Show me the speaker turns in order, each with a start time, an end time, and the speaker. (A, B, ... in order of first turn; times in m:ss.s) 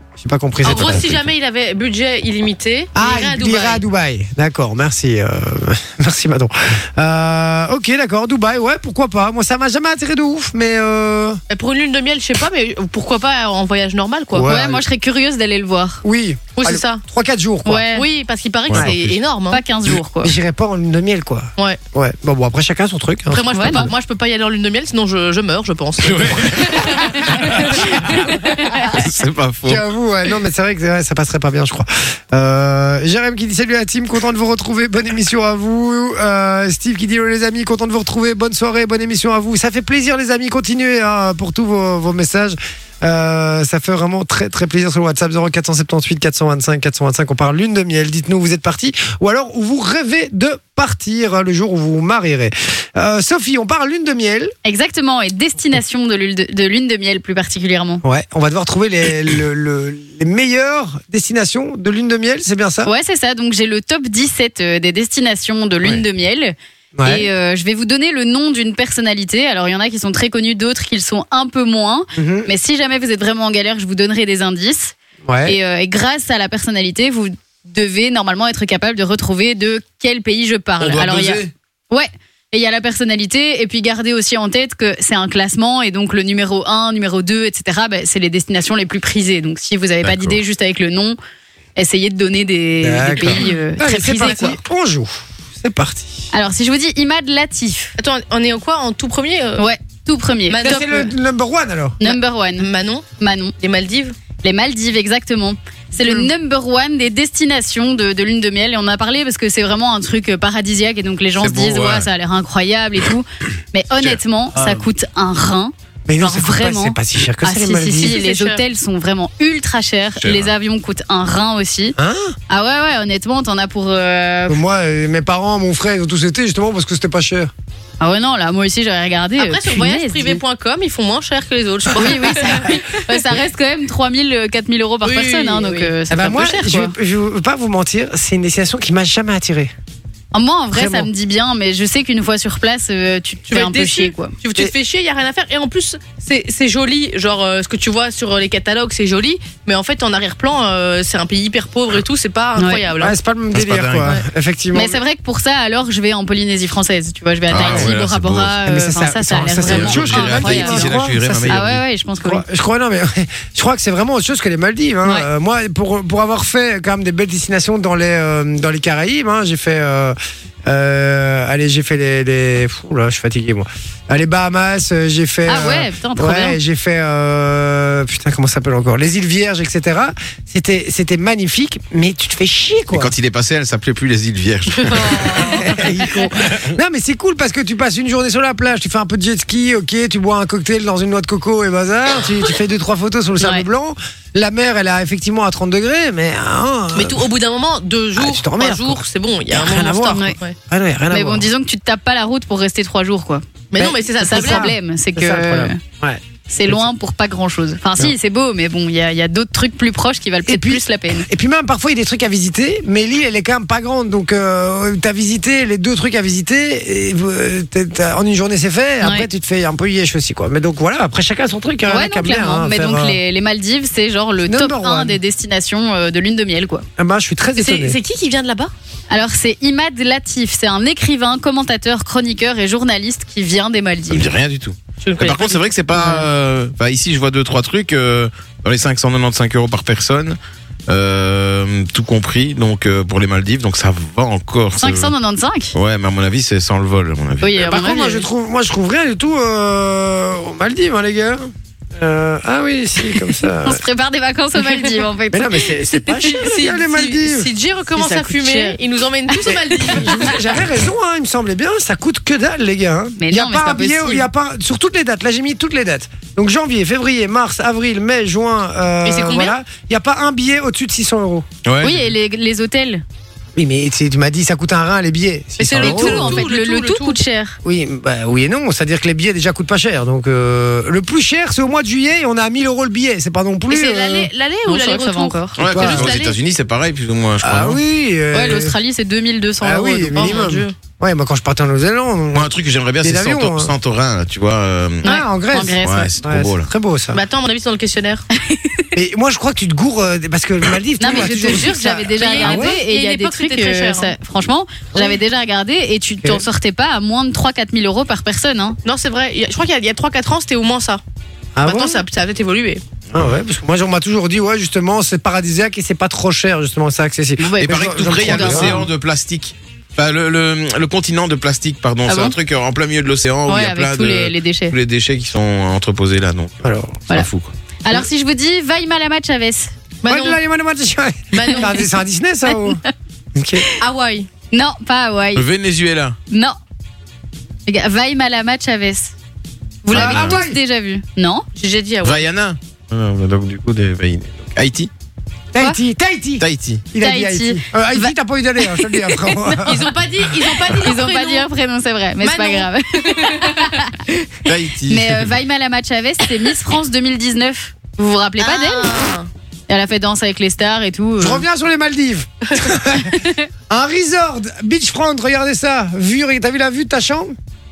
0:00.2-0:01.3 A
0:00.6-0:03.8 B
0:02.9-0:11.4 A
0:11.5-0:14.5 B
0:14.3-0:14.8 A
0:14.5-0:16.0 C
0:16.0-0:17.9 A
0:16.6-0:17.0 B
0:17.6-0:18.1 C
0:17.9-0:19.6 B
0:18.7-0:19.2 D
0:19.5-0:20.3 C
0:20.2-0:23.9 A
0:23.3-0:27.6 B
0:23.5-0:23.9 C
0:26.0-0:29.8 D
0:28.2-0:29.0 C
0:29.6-0:54.5 A
0:54.6-0:58.0 C
0:58.0-1:02.9 A
1:02.8-1:31.2 C
1:06.9-1:07.3 A
1:12.2-1:12.5 A
1:15.2-1:15.6 A
1:20.8-1:21.5 D
1:30.0-1:30.4 D
1:31.8-1:34.6 C
1:32.8-1:36.3 A
1:33.2-1:33.5 B
1:34.2-1:34.5 B
1:36.3-1:37.9 C
1:38.0-1:39.7 B
1:39.6-1:40.6 C
1:40.5-1:41.1 B
1:40.6-1:42.0 A
1:42.0-1:42.7 C
1:42.0-1:43.0 B
1:43.2-1:43.5 C
1:43.6-1:44.1 B
1:44.4-2:02.0 C
1:46.0-1:46.3 B
1:51.3-1:52.1 D
1:56.1-1:58.2 A
1:58.0-1:58.6 B
2:00.2-2:00.5 D
2:02.0-2:02.4 A
2:02.5-2:04.6 C
2:04.5-2:07.5 A
2:08.0-2:10.4 C
2:09.4-2:13.2 B
2:11.9-2:16.9 C
2:15.0-2:15.9 B
2:16.1-2:19.7 A
2:20.3-2:24.3 C
2:20.7-2:21.1 A
2:23.5-2:33.2 B
2:32.6-2:32.8 C
2:33.0-2:35.0 A
2:33.5-2:34.2 D
2:34.7-2:42.4 C
2:37.5-2:38.6 D
2:37.5-2:37.9 A
2:38.6-2:41.6 A
2:39.6-2:41.8 D
2:42.2-3:03.1 A
2:55.5-2:56.6 C
3:02.9-3:05.8 D
3:04.8-3:05.6 B
3:05.4-3:17.2 A
3:06.4-3:06.7 D
3:13.4-3:13.6 C
3:16.9-3:20.6 B
3:18.2-3:21.5 A
3:21.1-3:23.4 C
3:23.7-3:24.7 B
3:23.8-3:26.9 A
3:24.2-3:25.8 C
3:26.5-3:31.3 C
3:30.4-3:43.2 A
3:39.0-3:39.3 C
3:41.9-3:46.8 C
3:44.4-3:45.2 A
3:47.0-3:48.0 A
3:47.6-3:48.7 B
3:49.1-3:54.3 C
3:54.1-4:05.1 D
3:55.0-3:55.6 B
3:56.0-3:56.2 C
4:04.8-4:05.7 C
4:05.7-4:07.6 D
4:07.4-4:08.2 C
4:07.6-4:13.8 A
4:13.6-4:15.8 C
4:15.3-4:17.5 A
4:16.2-4:20.4 B
4:17.9-4:18.8 C
4:19.3-4:20.3 C
4:19.5-4:31.5 A
4:23.2-4:24.2 C
4:29.0-4:29.6 B
4:31.6-4:32.1 D
4:31.8-4:33.0 C
4:33.6-4:36.4 A
4:35.6-4:37.2 B
4:35.7-4:37.6 C
4:37.6-4:44.3 A
4:43.7-4:46.4 B
4:44.7-4:45.6 C
4:45.6-4:47.8 D
4:45.6-4:46.1 A
4:47.4-4:48.8 A
4:48.3-4:50.6 C
4:49.6-4:53.7 A
4:50.1-4:50.7 B
4:52.3-4:55.1 D
4:55.0-4:57.2 A
4:55.0-4:56.1 C
4:55.8-4:56.7 D
4:57.1-4:58.2 B
4:58.4-4:58.9 C
4:58.9-5:02.8 A
5:01.0-5:08.8 C
5:01.2-5:04.1 B
5:04.9-5:05.2 A
5:08.8-5:11.0 B
5:11.5-5:12.0 A
5:11.6-5:12.8 B
5:13.1-5:13.4 D
5:13.1-5:18.8 A
5:17.4-5:18.9 C
5:17.6-5:27.5 D
5:22.1-5:22.4 C
5:23.5-5:24.7 C
5:26.6-5:27.1 A
5:27.8-5:29.7 C
5:30.0-5:30.4 B
5:30.1-5:32.8 A
5:31.3-5:31.9 B
5:33.3-5:33.6 A
5:33.8-5:34.3 B
5:34.5-5:35.4 C
5:35.3-5:36.2 D
5:36.3-5:36.6 C
5:37.7-5:39.1 C
5:39.8-5:41.4 C
5:39.9-5:40.6 A
5:39.9-5:40.4 D
5:41.6-5:42.3 B
5:42.0-5:44.9 D
5:45.5-5:49.9 A
5:46.4-5:46.8 D
5:47.0-5:49.7 C
5:49.6-5:51.5 B
5:50.7-5:54.0 C
5:52.2-5:53.9 B
5:54.4-5:55.3 D
5:54.9-5:59.0 C
5:58.4-5:59.3 B
5:59.7-6:01.4 C
6:01.2-6:07.3 A
6:03.0-6:03.5 C